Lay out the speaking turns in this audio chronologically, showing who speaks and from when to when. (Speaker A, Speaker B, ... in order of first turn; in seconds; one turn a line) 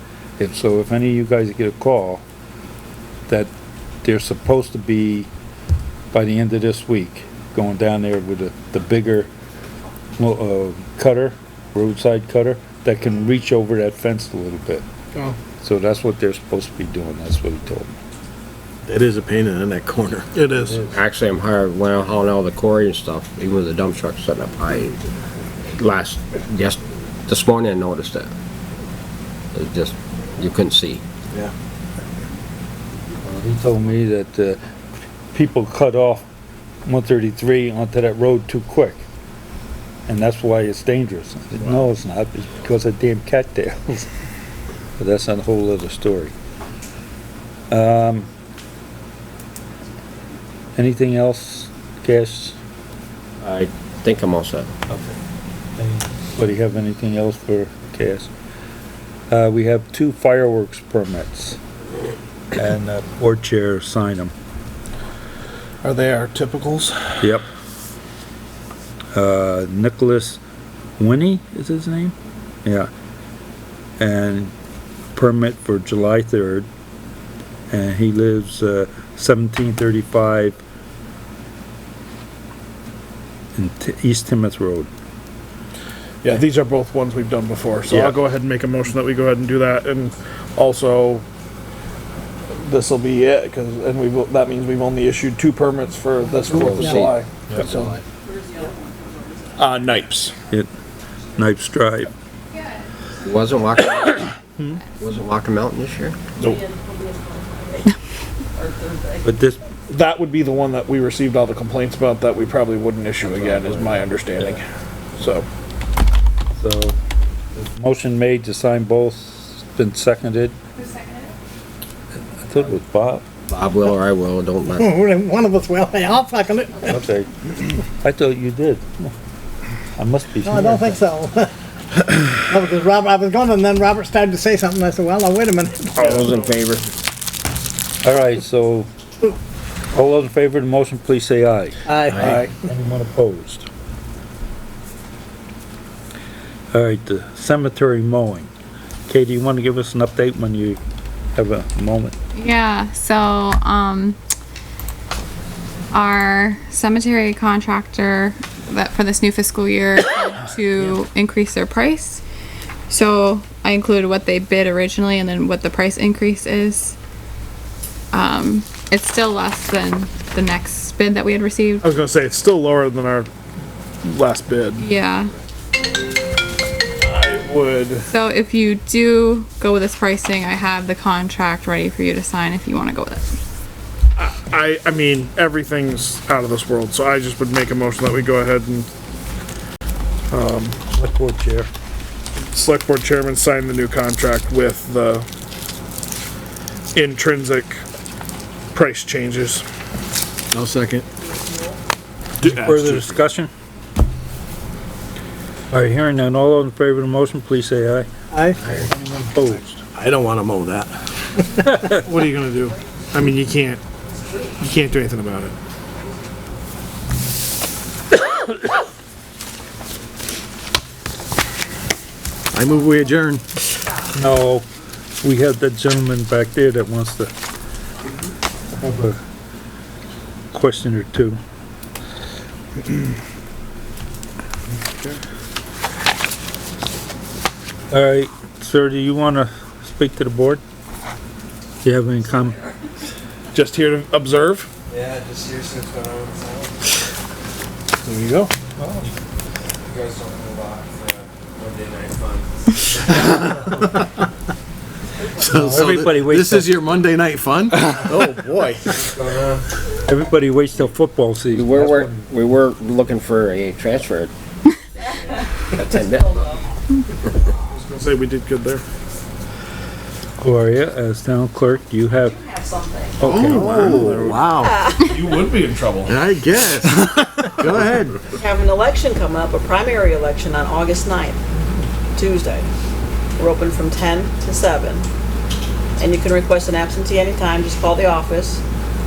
Speaker A: 0.4-2.2
Speaker A: 4.0-5.3
Speaker A: 6.1-9.3
Speaker A: 10.2-14.8
Speaker A: 15.6-18.0
Speaker B: 18.9-20.3
Speaker C: 20.3-20.8
Speaker D: 20.9-25.0
Speaker D: 25.7-28.3
Speaker D: 29.5-31.0
Speaker A: 33.3-34.6
Speaker A: 35.3-36.2
Speaker A: 36.9-39.0
Speaker A: 40.1-44.1
Speaker A: 45.0-46.3
Speaker A: 47.7-48.3
Speaker A: 50.8-52.6
Speaker D: 53.4-54.7
Speaker A: 54.9-55.1
Speaker A: 55.8-58.3
Speaker A: 59.3-61.6
Speaker A: 62.5-64.3
Speaker C: 65.8-67.3
Speaker A: 67.2-67.5
Speaker A: 69.1-70.4
Speaker A: 71.0-72.9
Speaker A: 74.0-74.5
Speaker A: 75.2-76.7
Speaker A: 77.7-80.6
Speaker A: 83.6-84.9
Speaker C: 86.2-91.2
Speaker A: 87.9-88.2
Speaker C: 92.5-98.0
Speaker D: 96.5-97.2
Speaker E: 98.3-99.5
Speaker C: 99.6-100.3
Speaker A: 101.4-102.1
Speaker F: 102.5-102.9
Speaker D: 103.2-104.3
Speaker D: 105.0-106.2
Speaker E: 106.4-107.9
Speaker E: 108.5-109.2
Speaker A: 109.2-109.6
Speaker C: 109.9-114.6
Speaker C: 115.2-115.5
Speaker A: 116.6-117.0
Speaker A: 117.5-120.5
Speaker F: 120.8-121.3
Speaker A: 122.4-123.2
Speaker D: 123.5-124.9
Speaker G: 124.7-127.0
Speaker A: 126.8-127.3
Speaker A: 128.0-129.1
Speaker A: 130.0-131.0
Speaker G: 130.4-136.2
Speaker D: 136.0-136.9
Speaker A: 138.0-138.9
Speaker A: 139.9-143.7
Speaker G: 141.9-142.5
Speaker C: 142.2-142.5
Speaker A: 146.7-148.5
Speaker A: 149.1-150.8
Speaker A: 151.4-152.2
Speaker F: 152.3-154.2
Speaker F: 155.9-162.2
Speaker F: 162.9-167.0
Speaker F: 168.1-171.9
Speaker C: 171.8-173.3
Speaker C: 174.0-174.8
Speaker F: 174.8-175.3
Speaker C: 177.0-178.1
Speaker F: 178.1-183.3
Speaker C: 184.2-188.9
Speaker C: 190.3-190.8
Speaker A: 190.9-191.7
Speaker C: 192.5-195.2
Speaker C: 196.9-197.8
Speaker C: 198.7-199.7
Speaker B: 200.5-201.1
Speaker E: 201.2-201.8
Speaker A: 202.4-203.5
Speaker C: 202.4-203.1
Speaker A: 205.7-208.1
Speaker G: 208.3-208.7
Speaker A: 208.7-209.8
Speaker B: 209.4-211.0
Speaker C: 211.8-213.8
Speaker C: 214.6-215.5
Speaker B: 222.5-223.4
Speaker A: 224.1-224.7
Speaker A: 225.2-227.3
Speaker A: 228.8-229.2
Speaker A: 230.5-231.4
Speaker A: 237.9-240.6
Speaker A: 241.8-242.6
Speaker C: 243.5-244.7
Speaker H: 245.0-246.7
Speaker C: 248.1-248.5
Speaker A: 248.8-249.1
Speaker H: 249.9-252.4
Speaker B: 253.2-253.6
Speaker B: 255.4-258.8
Speaker A: 255.4-256.8
Speaker A: 260.1-262.2
Speaker D: 261.5-264.3
Speaker D: 265.7-266.4
Speaker E: 266.0-266.6
Speaker C: 267.7-268.8
Speaker A: 270.4-272.4
Speaker E: 272.3-273.2
Speaker A: 273.2-274.4
Speaker B: 273.2-274.8
Speaker E: 274.5-275.4
Speaker C: 275.2-276.0
Speaker B: 276.1-278.2
Speaker E: 278.3-281.4
Speaker E: 282.1-282.7
Speaker E: 283.4-285.1
Speaker E: 286.0-288.6